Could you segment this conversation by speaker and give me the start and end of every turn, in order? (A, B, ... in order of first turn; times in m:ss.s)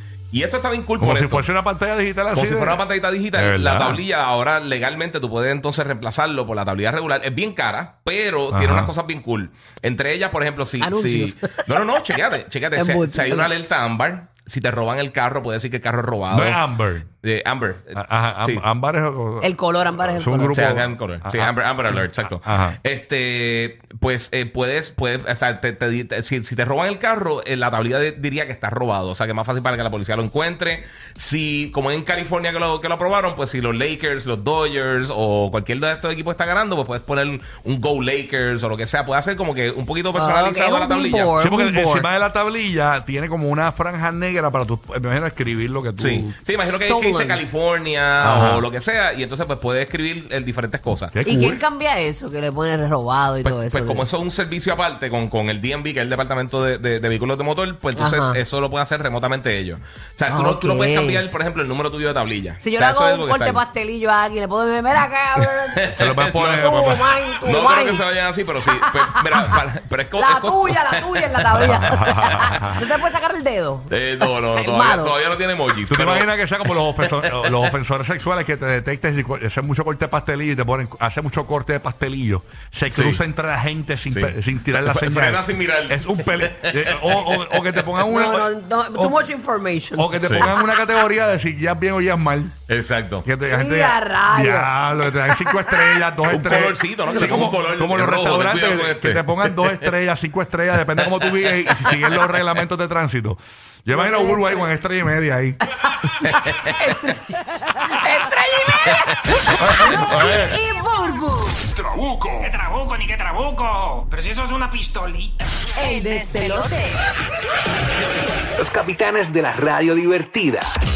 0:00.3-0:01.5 A
0:01.0-0:04.0 B
0:02.3-0:16.6 A
0:08.5-0:08.9 B
0:10.8-0:12.2 C
0:12.7-0:13.5 C
0:16.3-0:17.1 B
0:17.2-0:18.6 A
0:17.9-0:19.5 B
0:19.4-0:20.6 C
0:20.0-0:22.8 B
0:20.5-0:41.4 A
0:40.1-0:42.1 C
0:41.4-0:46.3 B
0:46.0-0:51.5 A
0:46.6-0:47.4 C
0:48.2-0:48.6 B
0:51.1-0:51.6 B
0:51.2-0:54.1 C
0:53.4-1:03.6 A
0:58.0-0:58.4 C
1:00.3-1:01.2 C
1:02.6-1:08.0 C
1:05.8-1:06.7 A
1:05.9-1:07.1 B
1:07.4-1:12.7 A
1:08.7-1:09.6 C
1:10.1-1:15.2 C
1:11.6-1:12.8 B
1:13.9-1:17.8 A
1:15.9-1:29.2 B
1:22.9-1:23.2 A
1:24.1-1:28.1 A
1:28.0-1:30.6 C
1:30.0-1:32.6 B
1:30.2-1:30.5 A
1:32.7-1:33.3 A
1:33.2-1:45.6 B
1:33.4-1:36.0 C
1:36.2-1:39.9 A
1:40.8-1:42.5 A
1:43.9-1:44.6 C
1:45.8-1:51.3 C
1:46.2-1:47.1 A
1:49.6-1:50.5 B
1:49.8-1:50.5 A
1:51.8-1:52.5 D
1:52.4-1:56.9 E
1:58.6-2:00.8 D